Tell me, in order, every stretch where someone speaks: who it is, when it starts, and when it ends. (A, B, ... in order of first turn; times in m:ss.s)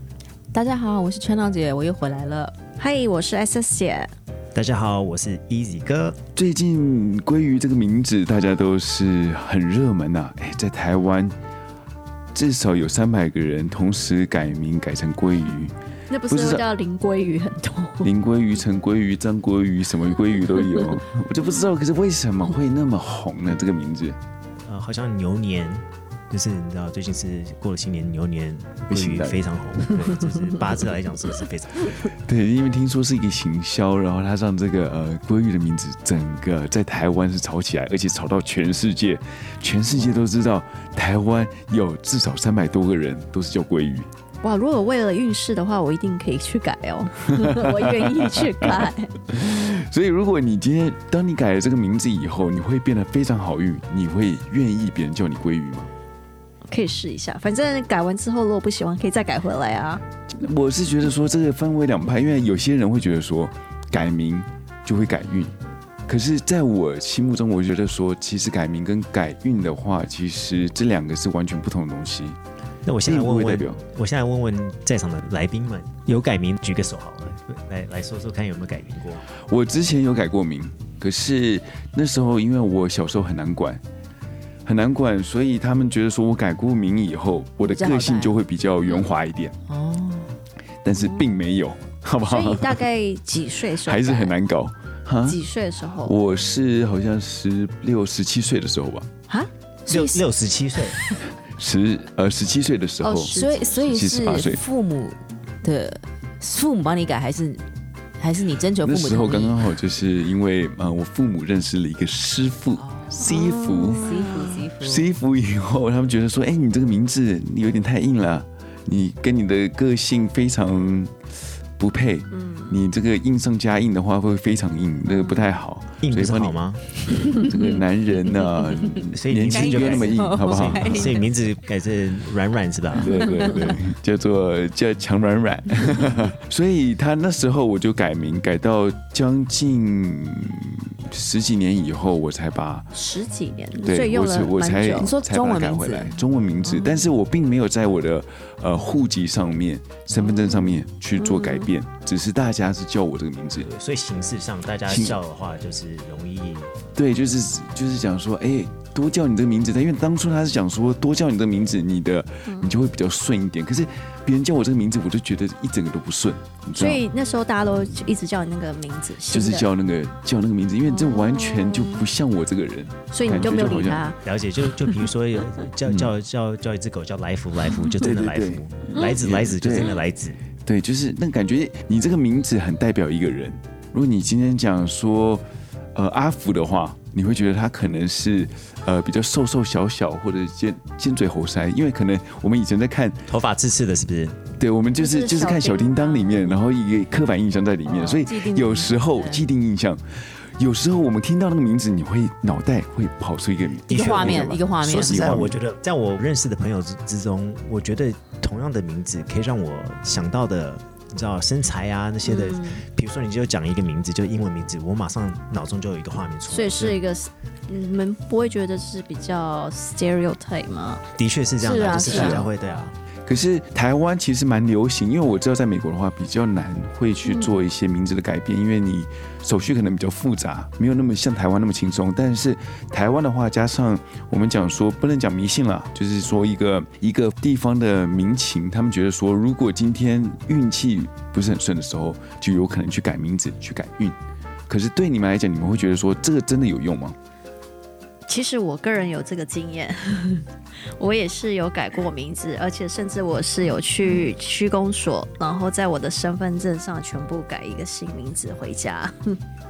0:00.5-0:02.5 A
0:02.8-0:04.1 B
0:04.5-0:06.2 C
0:06.3-0:11.3 D
0:12.3-0:15.7 D
0:16.1-0:18.1 B
0:16.3-0:16.6 D
0:18.0-0:24.2 D
0:24.6-0:32.0 C
0:28.9-0:29.4 D
0:32.0-0:44.1 D
0:44.4-0:49.1 B
0:47.3-0:55.9 D
0:56.7-1:00.0 B
1:00.3-1:05.5 D
1:06.1-1:12.4 D
1:12.8-1:19.2 C
1:13.0-1:13.8 D
1:19.4-1:23.8 D
1:24.6-1:29.5 D
1:27.6-1:28.4 A
1:29.7-1:30.3 A
1:30.8-1:32.8 D
1:32.2-1:34.3 B
1:33.8-1:35.4 D
1:35.2-1:36.1 B
1:36.0-1:39.1 D
1:39.9-1:40.2 A
1:39.9-1:41.0 C
1:41.6-1:44.6 D
1:43.0-1:43.7 B
1:43.3-1:47.7 A
1:48.2-1:49.6 A
1:48.8-2:01.2 D
1:52.8-1:55.0 A
1:53.2-1:54.3 B
2:01.8-2:06.6 D
2:02.3-2:02.8 B
2:06.0-2:06.8 C
2:07.1-2:11.1 D
2:07.4-2:07.8 A
2:08.3-2:11.3 A
2:09.1-2:13.4 C
2:13.0-2:22.9 D
2:13.3-2:13.6 A
2:22.9-2:25.1 B
2:23.8-2:33.7 D
2:25.0-2:27.1 A
2:31.2-2:31.7 B
2:33.6-2:36.7 C
2:34.8-2:35.2 D
2:36.9-2:47.0 D
2:42.5-2:42.7 B
2:46.8-2:49.7 B
2:49.3-2:54.1 D
2:50.9-2:52.0 B
2:53.1-2:54.2 B
2:53.3-3:00.4 C
2:55.8-2:56.1 D
2:58.0-3:00.0 D
3:00.6-3:05.4 D
3:05.9-3:13.3 D
3:13.3-3:14.4 C
3:14.6-3:25.6 D
3:15.0-3:16.5 B
3:17.8-3:19.4 A
3:23.9-3:25.4 A
3:23.9-3:37.0 C
3:32.2-3:32.8 B
3:36.5-3:41.0 B
3:41.2-3:42.9 C
3:41.6-3:42.5 B
3:41.7-3:42.5 A
3:42.0-3:42.5 D
3:43.3-4:04.2 D
4:04.7-4:07.2 D
4:08.3-4:10.4 B
4:11.0-4:19.4 B